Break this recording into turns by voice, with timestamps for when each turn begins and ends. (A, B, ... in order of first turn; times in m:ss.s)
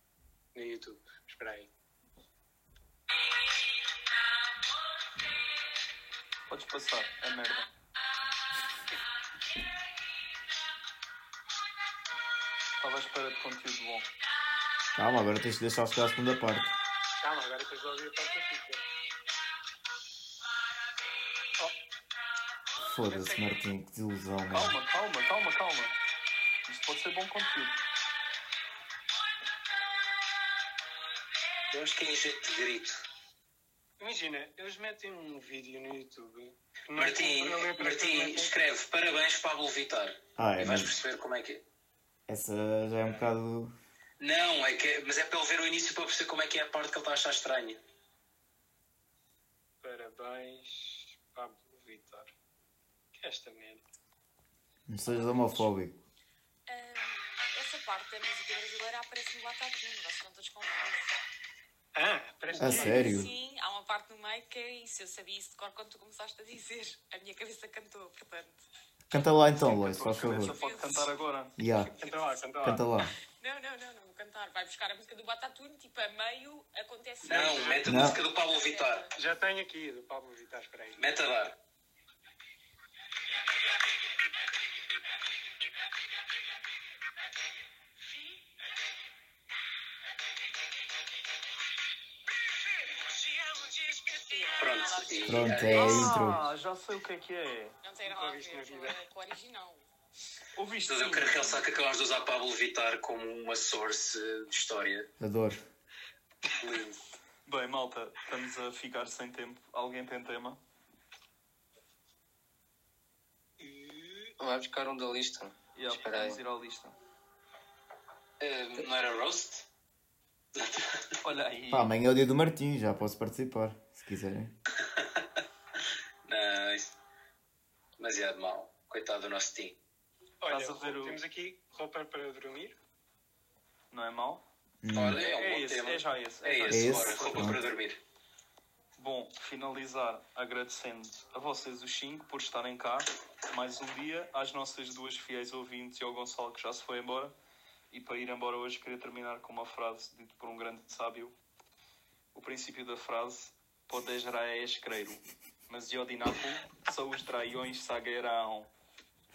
0:00.6-0:01.7 A
0:06.5-0:07.7 B
0:12.8-0:14.1 B
0:15.0-0:16.7 C
0:17.2-0:18.8 A
0:22.8-0:24.8 C
0:23.1-0:23.5 A
0:24.5-0:26.0 B
0:26.7-0:27.8 B
0:31.7-0:33.0 D
0:34.0-0:38.6 A
0:37.0-0:41.6 D
0:40.4-0:40.9 C
0:42.3-0:43.8 C
0:44.2-0:47.8 D
0:49.8-0:52.3 A
0:53.2-0:53.8 A
0:54.9-0:56.0 C
0:55.2-0:55.6 A
0:56.7-1:01.1 E
1:02.0-1:03.3 A
1:02.5-1:08.6 E
1:02.6-1:03.3 C
1:09.1-1:10.6 C
1:09.6-1:11.5 B
1:10.4-1:11.1 E
1:11.6-1:11.9 C
1:12.0-1:12.8 A
1:12.6-1:13.2 C
1:13.4-1:19.2 E
1:17.2-1:19.1 D
1:17.3-1:17.8 A
1:17.8-1:18.2 C
1:19.1-1:21.0 A
1:21.0-1:21.6 D
1:34.2-1:36.2 E
1:34.6-1:36.2 D
1:35.2-1:36.4 C
1:35.7-1:37.8 B
1:37.8-1:39.8 E
1:38.1-1:39.0 A
1:40.6-1:41.6 B
1:40.9-1:45.1 D
1:45.2-1:45.6 C
1:46.6-1:47.0 D
1:47.5-1:50.6 B
1:53.6-1:54.3 A
1:54.4-1:56.4 F
1:55.8-1:57.0 B
1:58.4-1:59.7 D
2:00.6-2:01.2 D
2:01.2-2:01.9 B
2:01.7-2:04.5 C
2:04.8-2:05.3 D
2:06.3-2:07.0 D
2:08.0-2:09.8 D
2:10.4-2:12.8 A
2:10.5-2:11.2 B
2:13.9-2:14.4 B
2:14.8-2:15.2 C
2:14.9-2:18.0 D
2:15.2-2:17.6 B
2:16.7-2:17.6 C
2:19.0-2:27.3 B
2:27.9-2:31.3 B
2:32.4-2:38.7 B